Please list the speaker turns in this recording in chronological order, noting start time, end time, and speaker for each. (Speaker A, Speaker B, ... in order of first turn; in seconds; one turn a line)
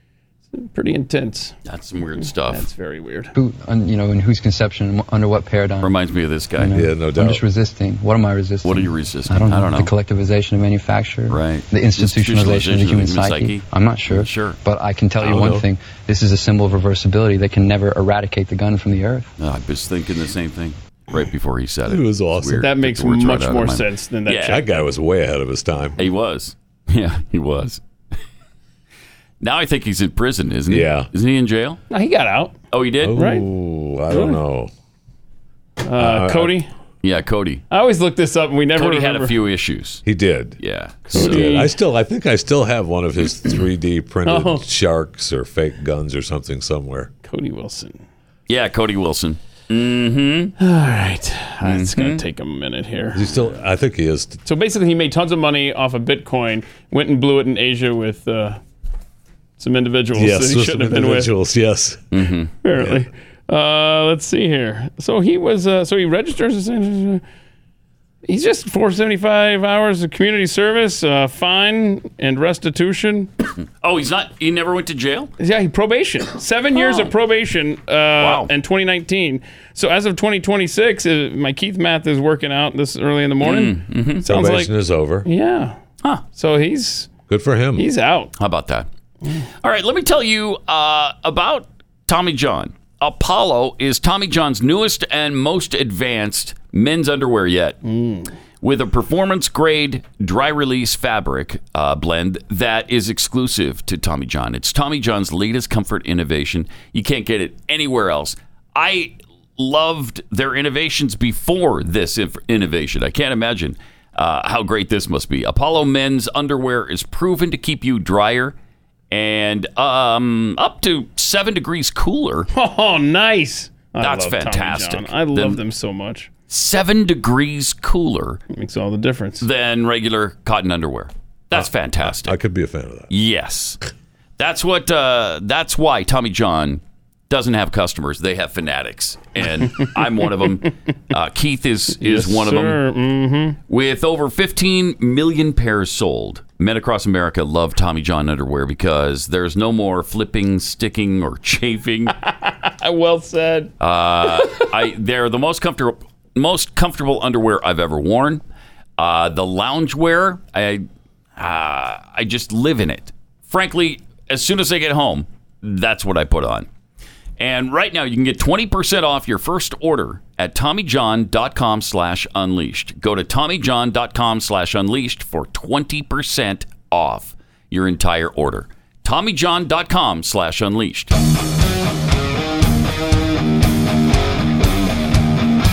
Speaker A: 0.5-1.5
Speaker B: 1.6-2.7
Speaker A: 2.2-3.3
Speaker C: 3.3-5.9
Speaker B: 5.8-6.9
Speaker C: 6.6-19.3
Speaker D: 6.7-7.4
Speaker B: 8.6-9.9
Speaker B: 11.3-14.6
Speaker B: 15.2-15.6
Speaker D: 15.2-15.7
Speaker B: 19.4-24.6
Speaker D: 21.9-22.6
Speaker A: 22.6-24.6
Speaker D: 24.5-26.0
Speaker B: 26.0-27.8
Speaker B: 29.4-31.8
Speaker D: 30.7-31.1
Speaker A: 31.9-32.5
Speaker B: 32.7-33.2
Speaker D: 33.0-34.7
Speaker A: 33.1-33.5
Speaker A: 34.1-34.4
Speaker A: 35.8-36.7
Speaker D: 36.0-36.6
Speaker B: 37.0-37.6
Speaker A: 37.7-39.3
Speaker B: 38.8-40.0
Speaker D: 40.0-40.6
Speaker B: 40.6-41.6
Speaker D: 41.1-47.1
Speaker A: 41.1-41.7
Speaker A: 44.2-44.6
Speaker A: 47.2-48.0
Speaker B: 48.5-50.5
Speaker A: 50.6-53.3
Speaker B: 51.6-52.2
Speaker D: 53.1-54.4
Speaker A: 54.5-58.6
Speaker A: 59.6-61.3
Speaker D: 60.1-62.0
Speaker B: 62.1-62.5
Speaker A: 62.6-67.2
Speaker D: 62.8-63.0
Speaker A: 68.2-73.3
Speaker B: 73.8-75.3
Speaker A: 75.4-84.7
Speaker B: 76.8-77.1
Speaker B: 78.2-78.5
Speaker B: 83.4-84.2
Speaker D: 84.2-85.2
Speaker A: 85.2-85.8
Speaker A: 86.3-87.1
Speaker D: 87.3-87.9
Speaker A: 87.8-88.3
Speaker B: 88.4-88.9
Speaker B: 89.6-97.8
Speaker A: 97.8-98.3
Speaker B: 98.6-118.5
Speaker B: 119.1-122.5
Speaker A: 122.5-126.3
Speaker B: 124.0-125.6
Speaker B: 126.5-128.4
Speaker A: 128.5-129.4
Speaker B: 129.4-132.3
Speaker D: 131.5-133.1
Speaker B: 133.1-133.8
Speaker B: 134.4-142.8
Speaker A: 139.8-140.3
Speaker A: 142.0-143.6
Speaker B: 143.7-152.1
Speaker A: 152.2-153.7
Speaker B: 153.8-158.4
Speaker A: 154.2-154.7
Speaker B: 159.0-160.8
Speaker B: 161.4-166.7
Speaker B: 167.4-181.1